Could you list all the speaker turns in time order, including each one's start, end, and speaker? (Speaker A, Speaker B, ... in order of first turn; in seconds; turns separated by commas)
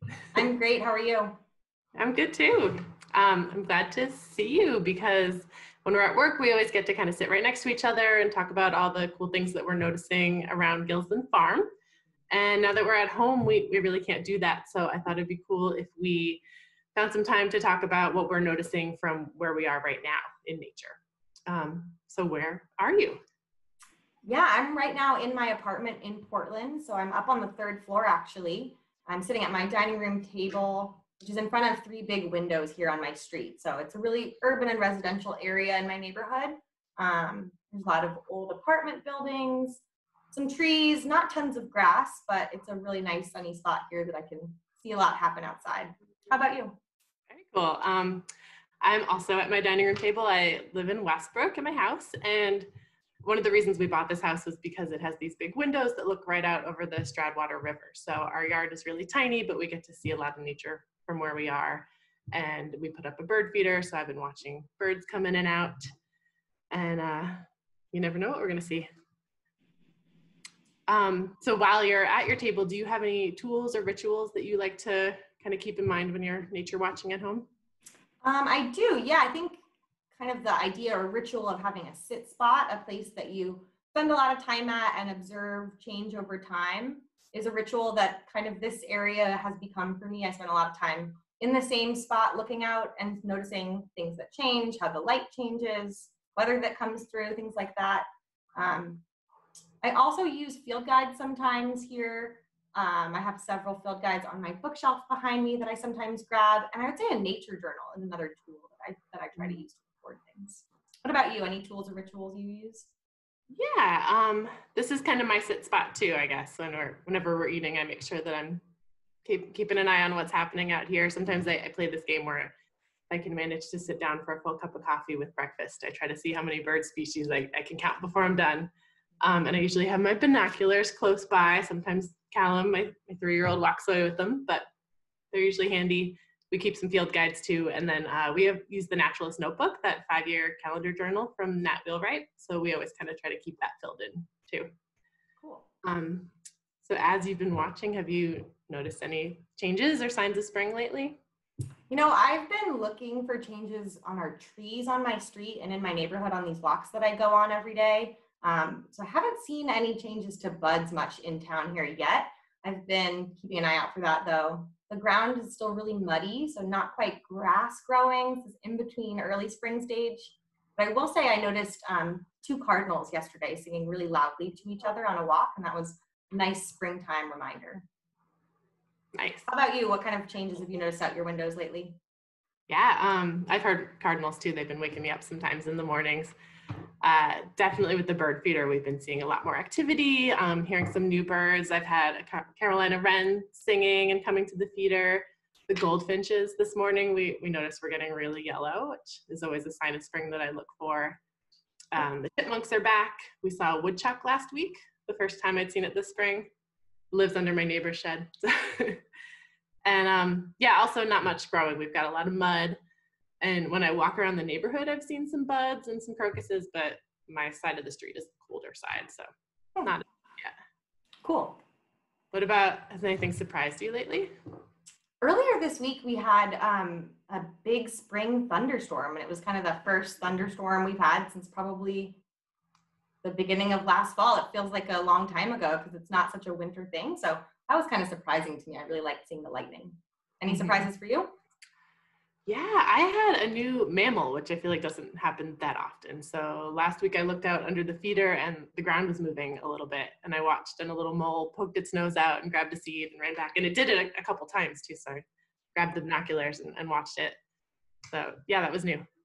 Speaker A: 0.3-1.3, Speaker B: 2.0-11.7, Speaker B: 12.3-16.4, Speaker B: 16.9-23.2, Speaker A: 24.2-46.7, Speaker B: 47.3-48.2, Speaker B: 48.8-52.6, Speaker B: 53.2-65.8, Speaker B: 66.7-68.9, Speaker B: 70.9-77.5, Speaker A: 78.2-79.6, Speaker A: 80.1-99.0, Speaker A: 99.8-112.9, Speaker B: 113.5-118.6, Speaker B: 119.2-122.5, Speaker B: 123.1-128.7, Speaker B: 129.2-134.6, Speaker B: 135.3-144.7, Speaker A: 145.4-145.7, Speaker B: 145.8-151.2, Speaker A: 151.9-177.8, Speaker B: 179.1-179.4, Speaker A: 179.5-182.0, Speaker B: 182.7-186.3, Speaker B: 187.0-201.2, Speaker B: 201.9-206.5, Speaker B: 207.1-209.0, Speaker B: 209.8-212.8, Speaker B: 213.4-220.5, Speaker A: 221.2-221.6, Speaker B: 222.3-224.3, Speaker A: 225.2-232.2, Speaker A: 233.2-241.3, Speaker B: 240.5-240.9, Speaker B: 242.4-255.2, Speaker B: 255.7-257.4, Speaker B: 258.1-259.0